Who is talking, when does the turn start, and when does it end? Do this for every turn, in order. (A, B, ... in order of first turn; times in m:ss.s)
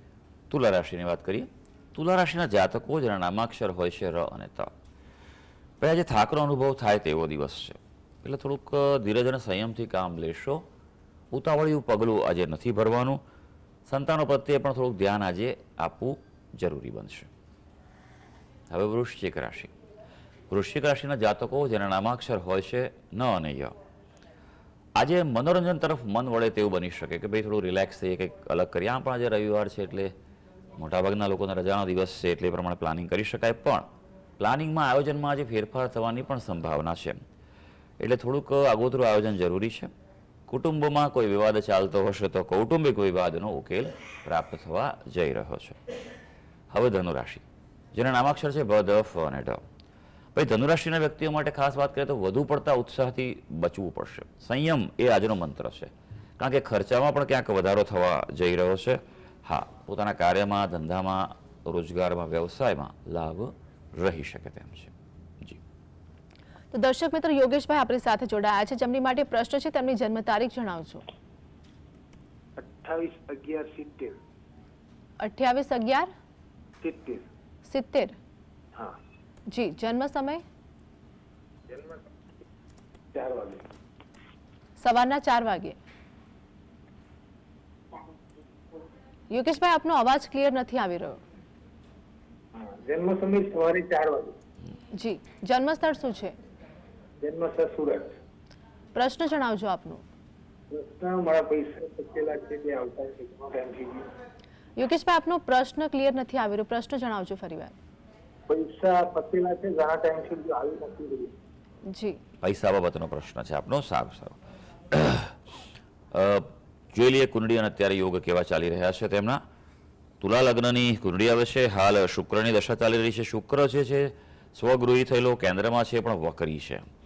0:00.5-0:04.7 A
0:05.8-0:10.6 A
0:11.3-0:13.2 A
0:13.8-0:17.3 A
0:18.7-0:19.7 A
0:20.5-0:23.8 A
0:25.0-0:30.1 A
0:30.8-0:33.9 A
0:34.4-0:37.2 A
0:38.0-0:39.9 A
0:40.5-0:45.8 A
0:46.7-0:49.6 A
0:50.3-1:05.6 A
1:06.7-1:11.0 B
1:12.6-1:14.2 C
1:15.2-1:16.1 B
1:16.8-1:17.2 C
1:17.6-1:18.1 B
1:19.5-1:20.4 B
1:21.7-1:22.0 C
1:23.1-1:23.6 C
1:24.8-1:25.8 B
1:29.3-1:31.2 B
1:32.6-1:34.4 C
1:34.9-1:36.3 B
1:37.2-1:38.1 C
1:38.9-1:40.0 B
1:40.7-1:44.1 C
1:44.8-1:47.7 B
1:48.5-1:51.3 C
1:51.9-1:52.2 B
1:52.4-1:54.4 A
1:54.9-1:55.4 A
1:56.1-1:59.4 A
2:00.2-2:06.8 A